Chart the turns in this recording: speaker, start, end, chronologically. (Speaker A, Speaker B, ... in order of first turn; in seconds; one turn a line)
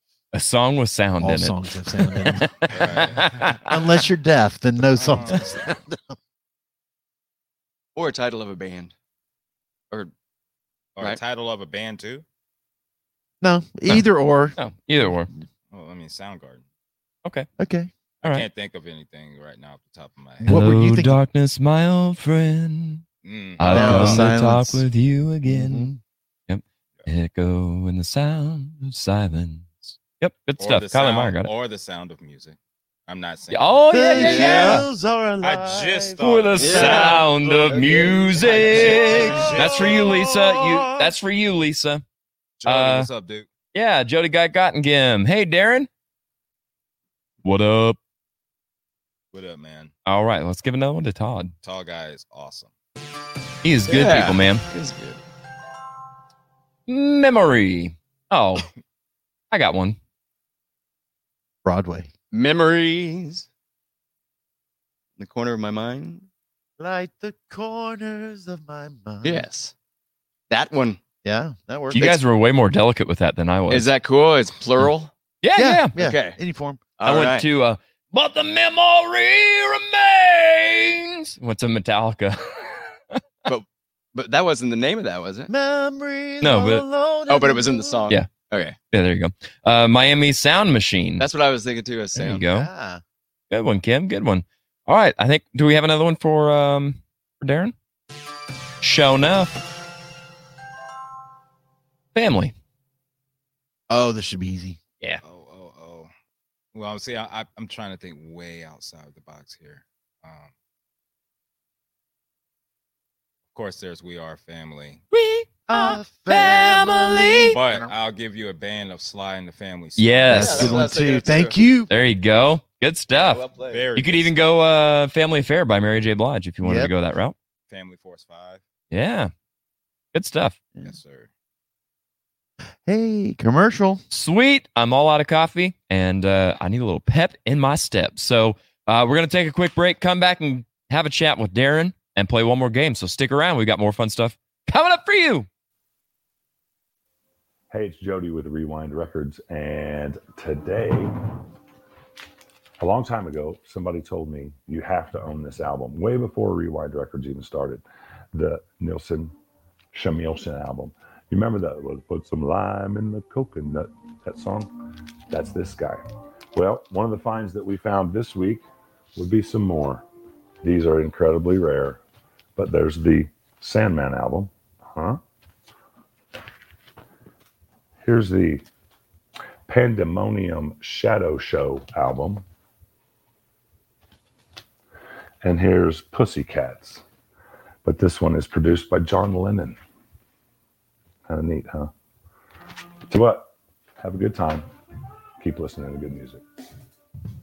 Speaker A: 0.3-3.6
Speaker B: 1.2-2.5
Speaker C: 2.7-3.6
Speaker B: 3.6-6.0
Speaker C: 4.9-5.6
Speaker D: 8.0-8.9
Speaker C: 11.0-12.2
Speaker B: 13.4-14.6
Speaker A: 14.6-15.3
Speaker C: 15.7-16.6
Speaker B: 17.6-17.9
Speaker C: 18.2-20.6
Speaker B: 20.4-21.2
Speaker A: 20.4-23.0
Speaker C: 23.2-24.3
Speaker A: 23.6-25.9
Speaker B: 23.7-24.9
Speaker B: 25.4-26.0
Speaker A: 26.5-31.5
Speaker C: 30.6-33.9
Speaker A: 33.5-34.8
Speaker B: 33.9-37.2
Speaker D: 34.2-34.8
Speaker C: 35.4-37.3
Speaker A: 36.2-42.0
Speaker D: 36.6-39.4
Speaker B: 38.1-41.1
Speaker C: 38.6-40.1
Speaker C: 42.6-43.5
Speaker A: 42.6-43.1
Speaker A: 43.7-45.9
Speaker A: 47.4-48.0
Speaker C: 49.3-49.9
Speaker A: 50.0-51.5
Speaker C: 51.6-52.7
Speaker A: 53.6-54.6
Speaker D: 53.9-55.2
Speaker A: 56.9-58.7
Speaker A: 59.5-60.0
Speaker B: 61.6-62.1
Speaker D: 62.3-63.5
Speaker D: 65.2-66.3
Speaker B: 66.8-69.4
Speaker D: 69.2-69.7
Speaker D: 70.5-71.0
Speaker B: 71.2-72.1
Speaker A: 71.9-73.9
Speaker D: 73.7-75.1
Speaker A: 75.4-75.9
Speaker B: 75.5-76.8
Speaker D: 76.0-76.4
Speaker D: 77.0-77.5
Speaker A: 77.0-83.2
Speaker D: 83.5-85.5
Speaker B: 85.5-88.1
Speaker A: 86.4-86.8
Speaker D: 87.3-88.8
Speaker A: 88.9-91.2
Speaker D: 91.2-92.4
Speaker B: 92.2-93.0
Speaker A: 92.2-92.7
Speaker A: 93.5-97.7
Speaker A: 98.8-99.6
Speaker A: 102.1-102.5
Speaker B: 103.9-104.8
Speaker C: 105.2-106.1
Speaker C: 106.7-110.5
Speaker C: 113.5-115.0
Speaker A: 115.1-117.5
Speaker B: 115.7-117.9
Speaker C: 117.5-120.8
Speaker A: 120.0-120.8
Speaker B: 120.3-121.9
Speaker D: 120.3-121.7
Speaker A: 121.9-123.4
Speaker D: 123.1-123.8
Speaker C: 123.7-124.4
Speaker A: 124.0-127.3
Speaker B: 126.6-126.9
Speaker C: 127.7-128.6
Speaker A: 128.9-129.3
Speaker A: 130.1-130.6
Speaker C: 130.8-131.3
Speaker B: 132.8-134.0
Speaker A: 134.1-145.5
Speaker E: 147.7-151.1
Speaker E: 152.8-159.3
Speaker E: 159.9-164.7
Speaker E: 165.3-166.0
Speaker E: 166.5-168.6
Speaker E: 169.2-170.0
Speaker E: 170.6-172.0
Speaker E: 172.6-175.2
Speaker E: 178.0-178.6
Speaker E: 179.7-182.4
Speaker E: 185.4-187.0
Speaker E: 187.8-189.8
Speaker E: 191.3-191.9
Speaker E: 193.1-194.7
Speaker E: 195.4-196.4